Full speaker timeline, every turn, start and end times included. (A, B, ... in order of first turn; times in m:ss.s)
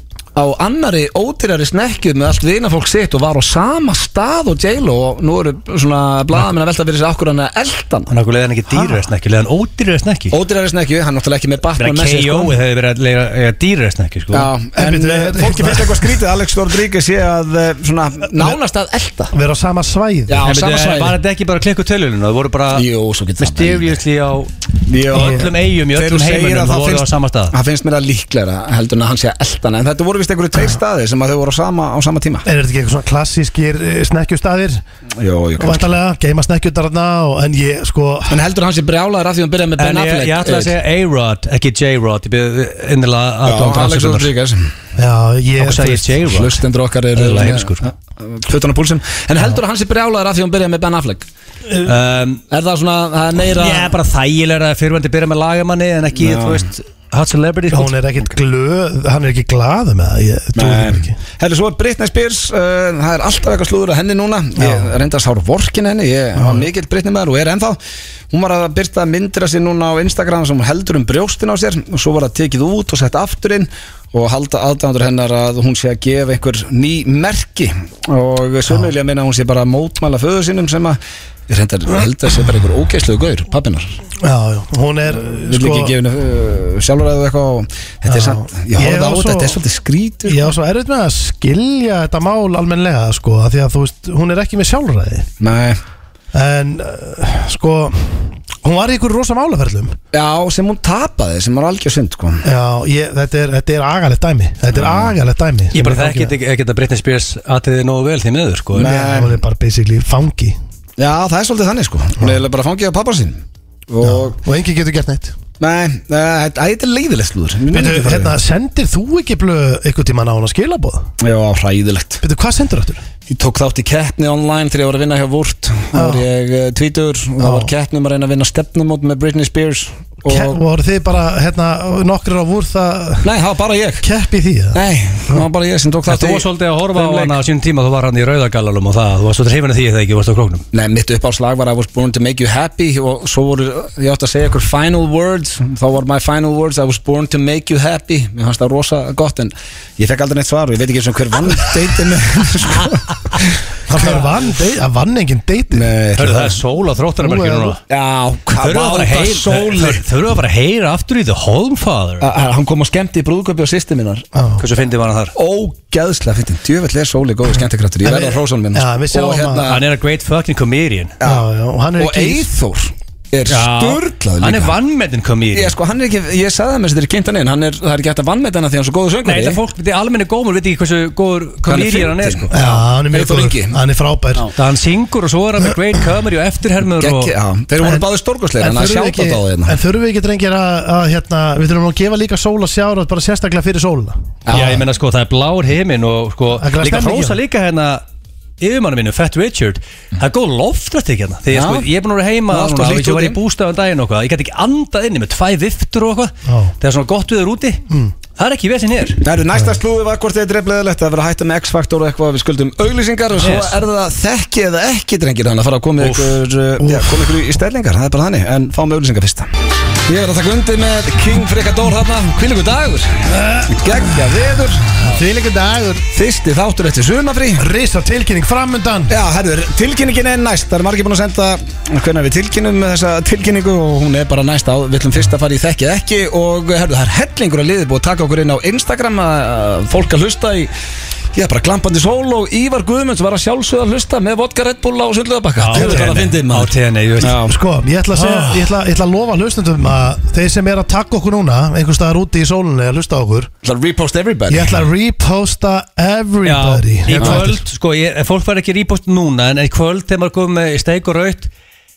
0:00.3-0:08.1 A
0:08.1-0:10.4 B
0:08.7-0:09.0 C
0:10.3-0:12.6 A
0:11.8-0:14.5 B
0:14.3-0:19.3 A
0:14.8-0:16.2 C
0:19.3-0:20.5 C
0:20.3-0:21.2 A
0:20.4-0:22.9 B
0:22.7-0:24.0 A
0:23.4-0:27.5 B
0:24.8-0:32.5 A
0:25.1-0:25.4 C
0:32.4-0:34.8 C
0:35.2-0:35.9 A
0:35.6-0:38.4 C
0:38.3-0:40.7 A
0:39.8-0:44.3 B
0:43.4-0:44.7 A
0:45.0-0:46.1 C
0:45.6-0:46.6 B
0:46.2-0:51.3 A
0:47.1-0:47.8 B
0:51.8-0:52.4 B
0:52.5-0:54.0 A
0:53.5-0:57.9 B
0:56.1-0:56.7 A
0:57.7-1:01.1 C
1:00.5-1:07.8 A
1:04.6-1:04.9 C
1:06.4-1:06.7 C
1:08.3-1:23.9 A
1:24.2-1:25.9 C
1:25.4-1:30.5 A
1:28.1-1:29.6 C
1:30.2-1:35.3 C
1:35.4-1:35.8 A
1:36.3-1:40.0 C
1:40.1-1:42.4 A
1:42.4-1:46.3 C
1:44.7-1:45.1 A
1:45.7-1:48.9 B
1:48.7-1:49.4 A
1:48.8-1:50.6 C
1:51.0-1:54.4 A
1:54.0-1:55.4 C
1:55.6-1:58.3 A
1:57.7-2:01.1 C
2:01.2-2:02.2 A
2:02.2-2:03.0 C
2:03.3-2:10.6 A
2:05.9-2:06.2 C
2:07.4-2:07.7 C
2:10.2-2:13.3 C
2:13.2-2:14.1 A
2:14.0-2:15.4 C
2:14.7-2:17.4 A
2:16.0-2:20.6 B
2:20.7-2:34.4 A
2:33.9-2:35.9 C
2:35.7-2:36.6 A
2:36.2-2:37.8 B
2:37.2-2:37.8 C
2:37.9-2:40.0 A
2:38.6-2:42.2 B
2:42.2-2:44.2 A
2:44.3-2:44.6 C
2:44.6-2:45.3 B
2:45.3-2:49.8 A
2:48.0-2:49.7 C
2:49.6-2:51.1 B
2:51.2-2:51.4 A
2:51.2-2:52.5 C
2:52.0-2:54.8 A
2:53.5-2:55.7 B
2:55.5-2:59.6 A
2:59.2-3:02.8 B
3:01.6-3:02.5 A
3:02.5-3:04.5 C
3:03.1-3:03.8 A
3:04.5-3:07.3 B
3:07.0-3:09.8 A
3:07.8-3:08.0 C
3:08.6-3:14.3 C
3:14.4-3:14.8 A
3:14.5-3:18.0 B
3:16.6-3:17.4 C
3:18.6-3:27.8 B
3:21.5-3:21.9 A
3:22.5-3:23.4 A
3:26.4-3:26.7 C
3:28.4-3:29.2 B
3:29.2-3:39.5 A
3:33.4-3:33.8 B
3:36.0-3:36.4 B
3:36.8-3:37.2 C
3:40.1-3:45.1 A
3:43.3-3:44.4 C
3:45.0-3:46.0 C
3:46.1-3:47.6 A
3:47.6-3:49.2 C
3:49.1-4:00.7 A
4:01.3-4:07.6 A
4:05.6-4:07.4 B
4:05.7-4:06.2 C
4:07.4-4:13.5 C
4:08.1-4:08.6 B
4:13.6-4:14.8 A
4:14.5-4:17.6 C
4:16.4-4:21.5 B
4:17.2-4:17.4 A